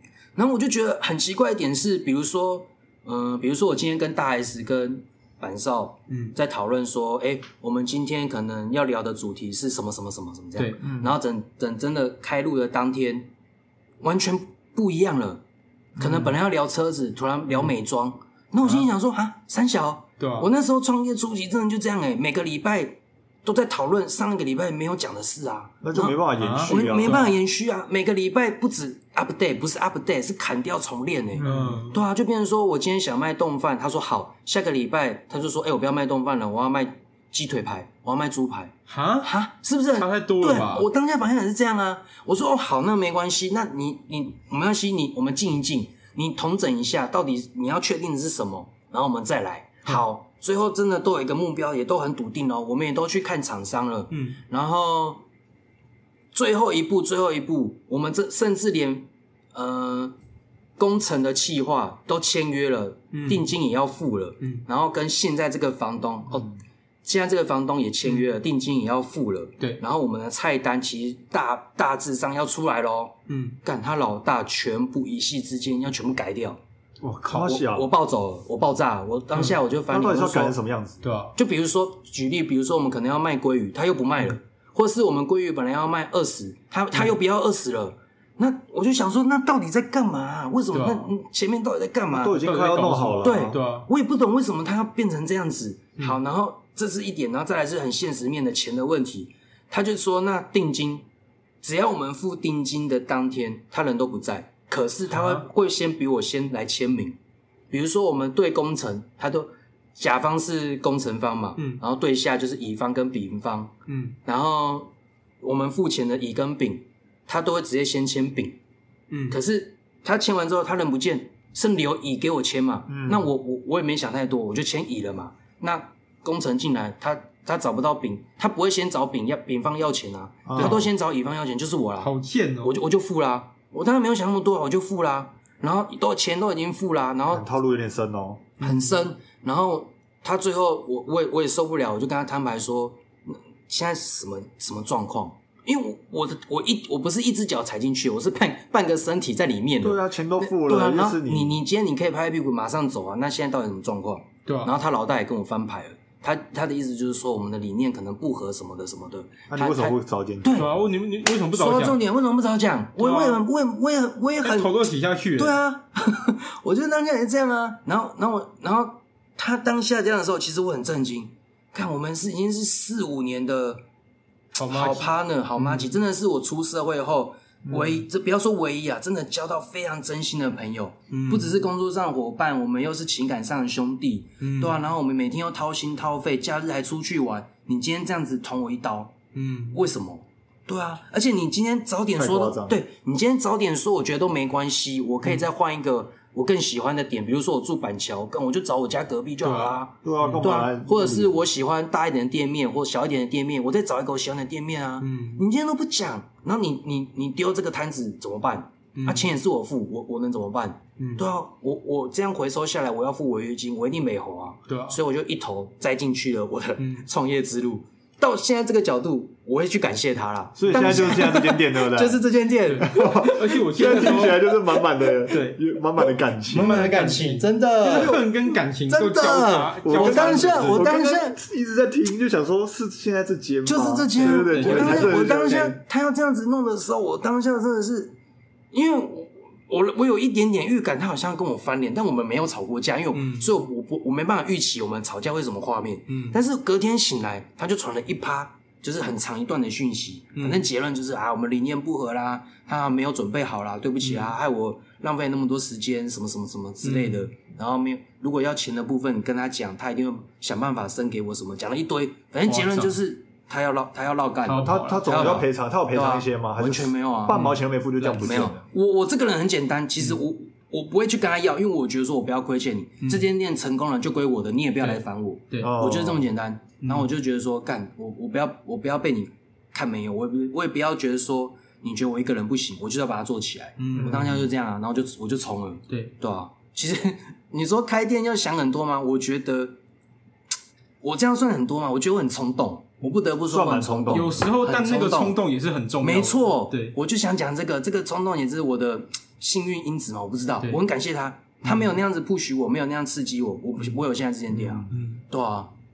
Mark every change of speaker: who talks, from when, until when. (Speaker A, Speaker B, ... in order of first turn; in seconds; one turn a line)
Speaker A: 0.4-13.3
Speaker B: 6.1-6.3
Speaker B: 10.6-10.8
Speaker C: 10.8-11.1
Speaker A: 14.0-15.4
Speaker A: 16.0-55.2
Speaker B: 16.0-16.3
Speaker B: 20.2-20.5
Speaker C: 25.8-27.4
Speaker B: 26.4-27.3
Speaker B: 31.4-32.0
Speaker C: 31.4-31.8
Speaker B: 38.9-39.3
Speaker B: 39.9-40.9
Speaker B: 54.1-54.4
Speaker A: 56.3-60.2
Speaker A: 60.8-66.5
Speaker B: 63.1-63.5
Speaker A: 67.0-76.6
Speaker B: 73.3-73.6
Speaker B: 77.0-77.4
Speaker A: 77.2-80.5
Speaker C: 77.3-77.9
Speaker C: 79.9-81.0
Speaker B: 81.0-81.3
Speaker A: 81.4-92.4
Speaker B: 90.7-91.1
Speaker C: 92.1-93.6
Speaker B: 92.4-93.9
Speaker A: 93.2-101.0
Speaker A: 101.6-107.2
Speaker B: 105.1-105.4
Speaker A: 107.7-113.7
Speaker B: 111.6-111.8
Speaker B: 113.9-114.2
Speaker A: 114.2-114.9
Speaker A: 115.4-118.6
Speaker B: 119.1-119.4
Speaker A: 119.3-132.1
Speaker C: 122.9-123.3
Speaker C: 130.5-130.9
Speaker B: 130.6-130.8
Speaker B: 132.0-132.8
Speaker A: 132.6-137.5
Speaker C: 137.3-138.6
Speaker A: 138.6-160.7
Speaker B: 138.6-139.0
Speaker C: 149.8-151.6
Speaker B: 154.5-154.7
Speaker C: 159.5-160.6
Speaker B: 160.5-162.0
Speaker A: 161.5-173.8
Speaker B: 163.0-163.4
Speaker B: 164.4-165.6
Speaker B: 174.6-175.9
Speaker A: 174.6-189.2
Speaker C: 177.7-178.0
Speaker B: 181.1-181.6
Speaker B: 184.4-184.8
Speaker B: 189.3-189.8
Speaker A: 189.7-224.4
Speaker C: 192.2-192.8
Speaker B: 199.4-200.6
Speaker C: 200.0-201.4
Speaker B: 205.0-205.4
Speaker B: 209.0-209.3
Speaker B: 211.0-211.3
Speaker B: 214.7-215.0
Speaker B: 216.8-217.1
Speaker C: 220.6-222.2
Speaker B: 220.7-221.0
Speaker B: 222.7-224.6
Speaker C: 222.8-227.0
Speaker B: 225.3-225.6
Speaker B: 226.5-230.9
Speaker A: 226.5-231.4
Speaker C: 229.8-235.8
Speaker A: 233.7-238.2
Speaker B: 234.2-235.6
Speaker A: 238.7-267.5
Speaker B: 243.1-243.5
Speaker B: 246.1-246.4
Speaker B: 250.3-250.6
Speaker B: 254.0-254.3
Speaker B: 256.8-257.3
Speaker B: 262.5-263.0
Speaker B: 264.4-265.4
Speaker C: 264.6-268.6
Speaker B: 267.3-267.6
Speaker A: 268.0-289.8
Speaker B: 273.0-273.3
Speaker B: 274.8-275.7
Speaker C: 275.6-276.3
Speaker B: 276.8-277.1
Speaker B: 283.8-284.4
Speaker C: 283.9-284.5
Speaker A: 291.0-295.4
Speaker C: 293.5-294.4
Speaker B: 294.1-297.0
Speaker A: 296.0-305.7
Speaker B: 301.7-301.9
Speaker B: 304.9-305.2